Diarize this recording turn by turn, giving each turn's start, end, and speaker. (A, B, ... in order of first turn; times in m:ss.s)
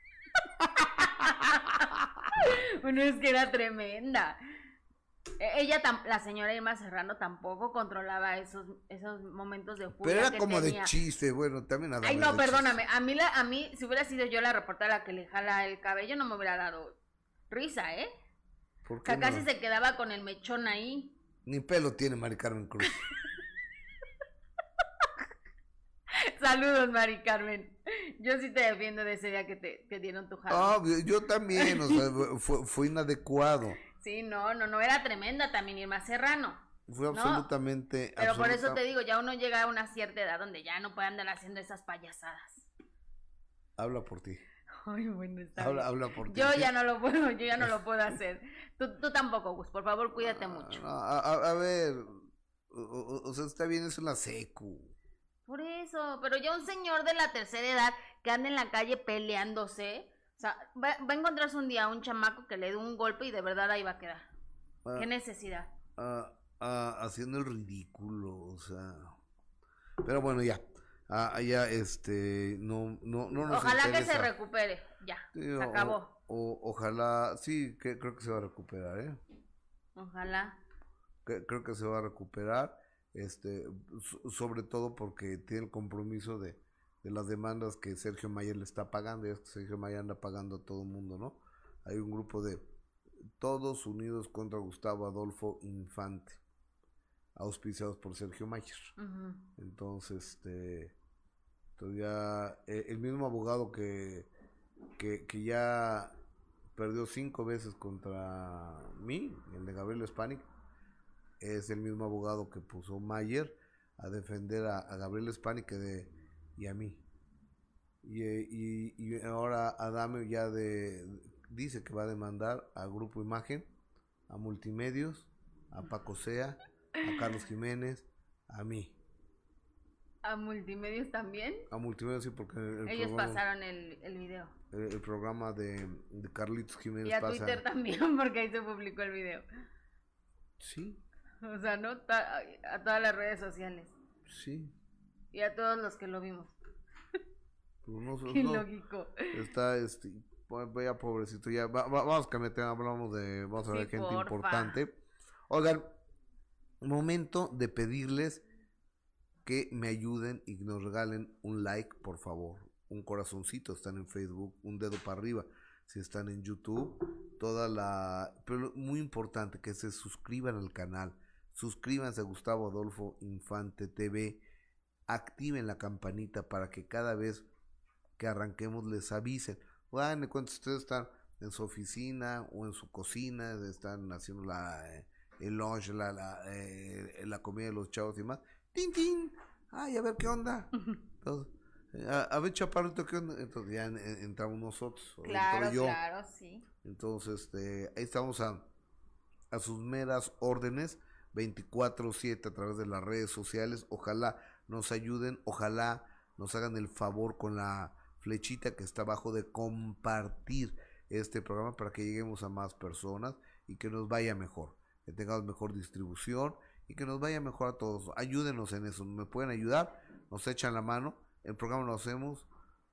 0:00.8-0:04.4 A
0:05.4-0:10.9 A
0:10.0-0:12.8 B
0:12.0-0:17.0 A
0:17.5-0:18.1 A
0:18.8-0:19.5 B
0:19.0-0:21.1 A
0:21.4-0:23.0 B
0:26.1-0:30.8 A
0:30.5-0:33.8 B
0:31.6-0:32.0 A
0:33.9-0:37.5 A
0:36.9-0:38.8 B
0:38.2-0:42.7 A
0:43.8-0:44.4 B
0:44.7-0:50.8 A
0:45.6-0:46.7 B
0:50.4-0:54.9 B
0:55.5-1:04.3 A
1:04.9-1:05.7 A
1:06.0-1:09.2 B
1:10.0-1:14.3 B
1:13.5-1:16.1 A
1:15.3-1:19.2 B
1:20.0-1:20.6 A
1:21.2-1:32.6 B
1:33.4-1:36.4 B
1:37.3-1:38.9 B
1:39.0-1:39.4 A
1:39.6-1:40.9 B
1:41.8-1:44.3 B
1:45.0-1:46.1 B
1:46.7-1:50.5 B
1:51.4-1:57.0 B
1:58.0-2:03.7 B
2:04.3-2:08.9 B
2:10.2-2:11.6 A
2:11.7-2:13.4 B
2:12.9-2:14.5 A
2:14.7-2:17.6 B
2:17.0-2:19.4 A
2:20.6-2:21.0 B
2:21.4-2:23.9 A
2:24.3-2:24.7 B
2:25.3-2:26.5 A
2:27.8-2:28.7 B
2:28.3-2:29.4 A
2:29.3-2:35.0 B
2:33.7-2:34.8 A
2:35.5-2:35.9 B
2:36.8-2:38.4 B
2:39.4-2:54.4 B
2:55.1-2:57.5 B
2:58.2-3:10.7 B
3:11.2-3:16.0 B
3:15.2-3:16.6 A
3:16.8-3:18.6 B
3:19.5-3:42.5 B